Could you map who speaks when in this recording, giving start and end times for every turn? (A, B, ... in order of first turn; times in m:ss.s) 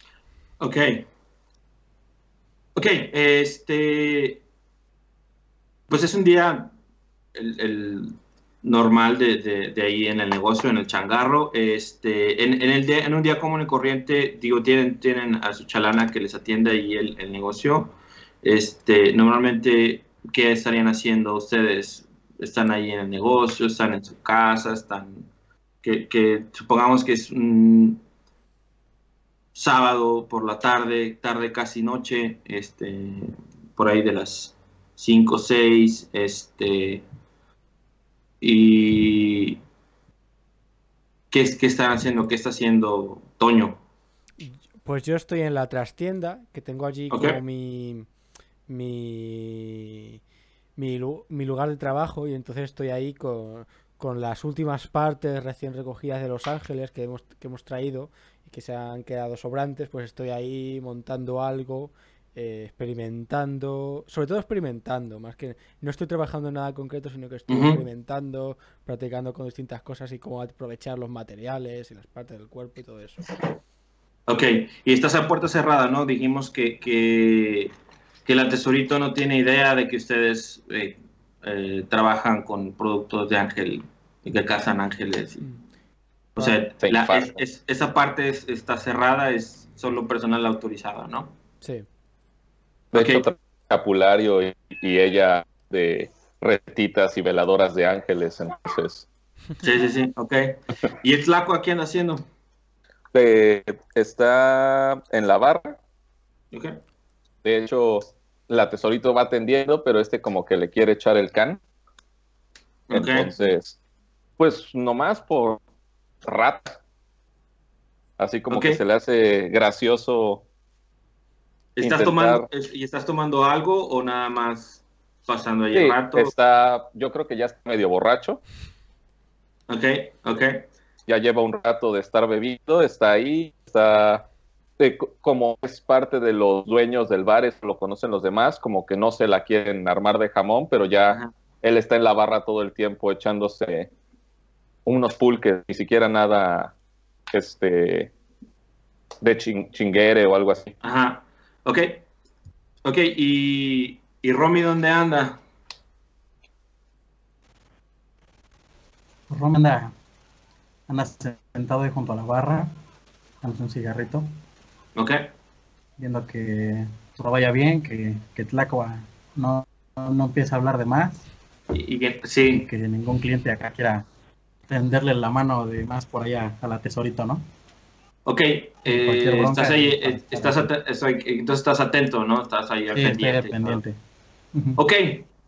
0:00.6-0:01.0 A
0:02.8-0:04.4 A
0:05.9-0:06.7 A
0:07.4-0:25.3 A
0:25.8-0:28.0 A
0:29.6-0:37.0 A
0:38.4-0:39.6 A
0:41.3-0:43.8 A
0:44.4-0:48.1 B
0:47.1-0:47.4 A
0:48.7-0:50.2 B
0:50.8-1:13.2 B
1:07.5-1:07.8 A
1:14.3-1:17.7 A
1:18.2-1:25.4 A
1:26.4-1:31.3 A
1:26.8-1:27.4 C
1:32.9-1:33.2 A
1:32.9-1:39.1 C
1:39.6-1:42.3 A
1:43.1-1:45.8 C
1:46.5-1:46.8 A
1:47.4-1:51.6 C
1:52.9-1:53.3 A
1:52.9-1:53.8 C
1:54.4-1:55.6 C
1:56.2-1:56.8 C
1:58.2-2:00.4 C
1:58.5-1:58.8 A
2:01.8-2:06.3 A
2:01.8-2:02.5 C
2:05.7-2:08.4 C
2:09.7-2:10.6 A
2:11.1-2:14.3 C
2:14.8-2:23.9 C
2:24.8-2:26.8 C
2:27.3-2:28.1 C
2:29.2-2:30.7 C
2:30.8-2:32.0 A
2:32.8-2:35.4 A
2:39.3-2:39.9 D
2:40.9-2:42.8 D
2:43.4-2:44.3 D
2:45.0-2:45.3 A
2:46.0-2:51.2 D
2:51.7-2:52.7 A
2:52.5-2:54.1 D
2:54.7-2:57.4 D
2:58.3-3:03.8 A
2:58.9-3:00.7 D
3:02.9-3:04.0 D
3:04.5-3:04.8 D
3:04.8-3:05.3 A